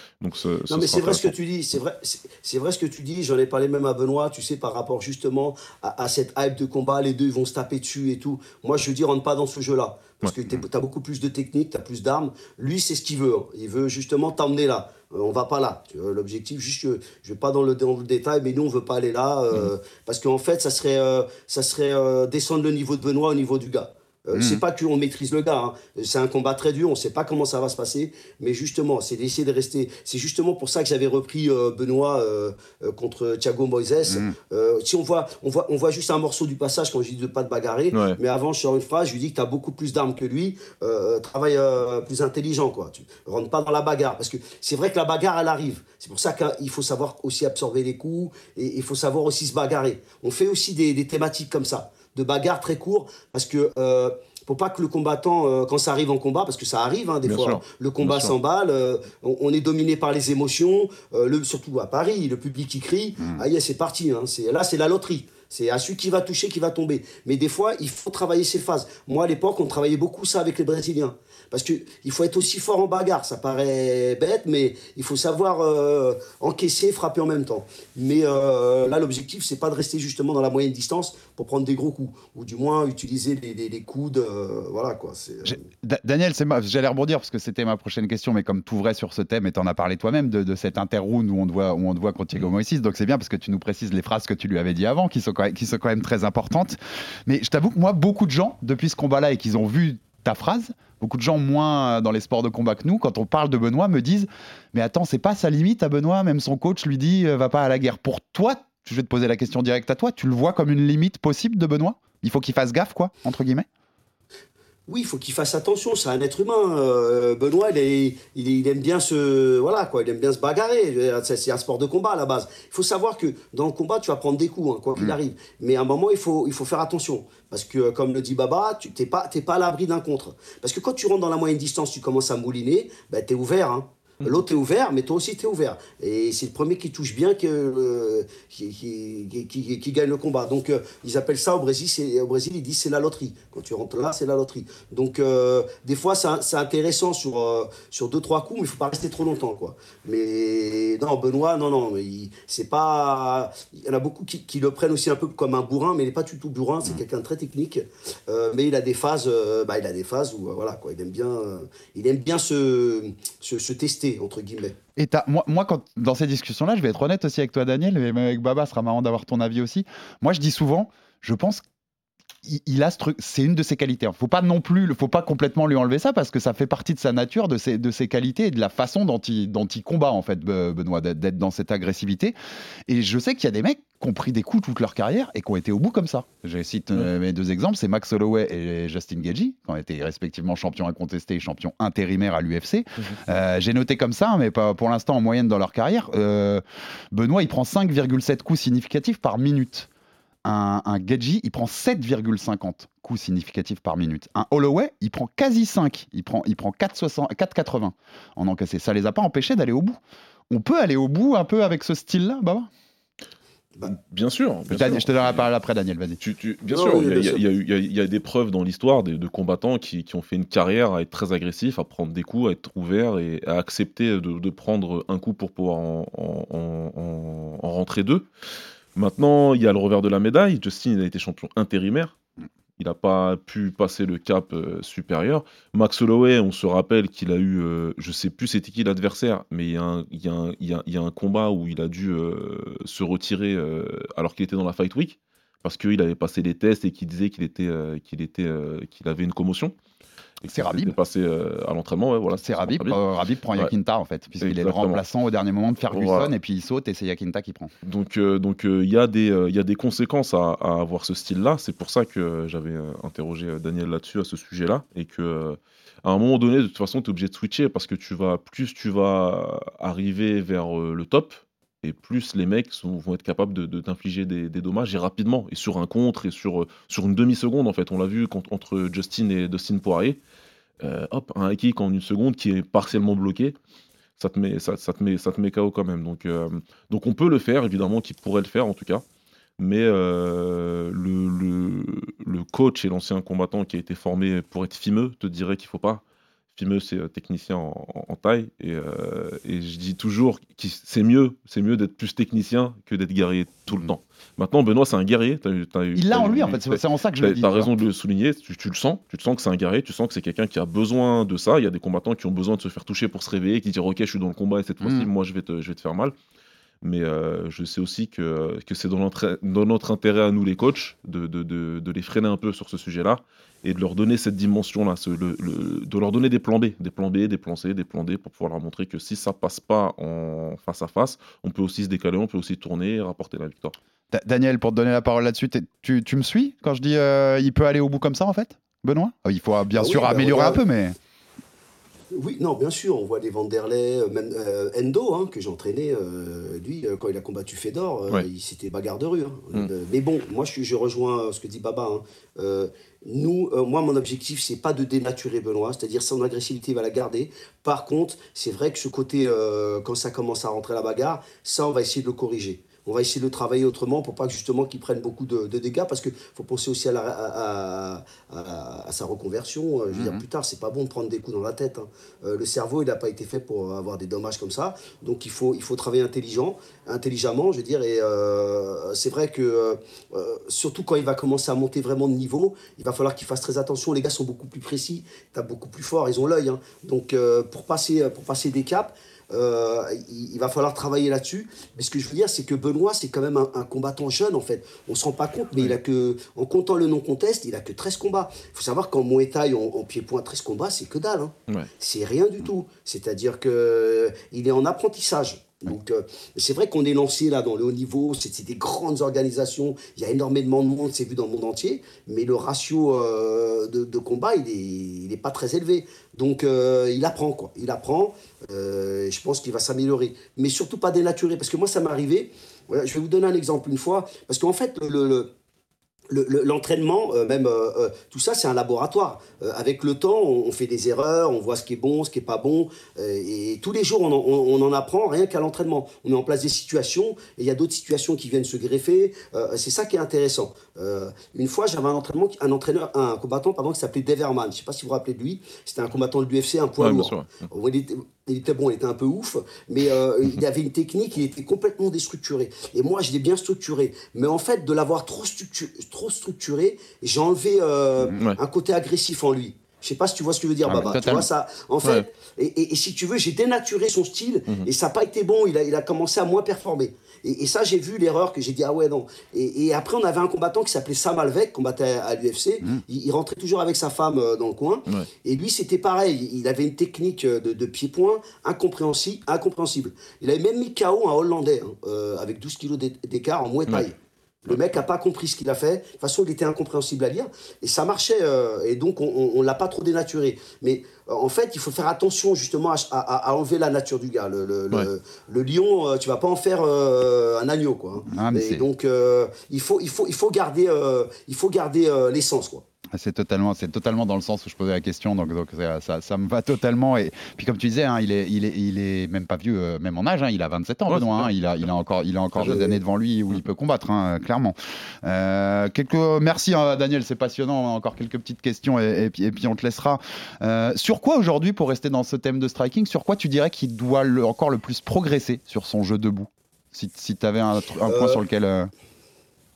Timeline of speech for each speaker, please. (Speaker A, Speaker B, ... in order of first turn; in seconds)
Speaker A: 0.2-1.3, 37.9-38.2, 57.2-58.4, 213.8-215.5, 216.2-228.3, 229.0-232.2, 232.8-249.7, 250.4-253.0, 254.4-255.0, 255.9-256.3, 257.8-280.2, 280.8-283.6, 284.2-289.1, 289.6-296.0, 296.5-316.1, 316.8-333.8, 446.8-447.5, 510.9-511.3, 512.4-512.8
Speaker B: 0.7-85.6, 114.9-164.8, 216.7-217.4, 339.8-340.6, 342.1-425.3, 426.1-502.6, 527.9-528.2
Speaker C: 24.3-24.6, 34.1-34.3, 85.5-113.7, 165.0-171.6, 172.4-182.3, 182.9-199.9, 200.4-210.0, 210.5-212.7, 214.7-216.2, 250.4-251.0, 252.4-257.7, 305.9-307.7, 314.8-315.1, 334.1-341.0, 369.9-370.2, 460.7-461.3, 498.1-498.6, 502.9-528.7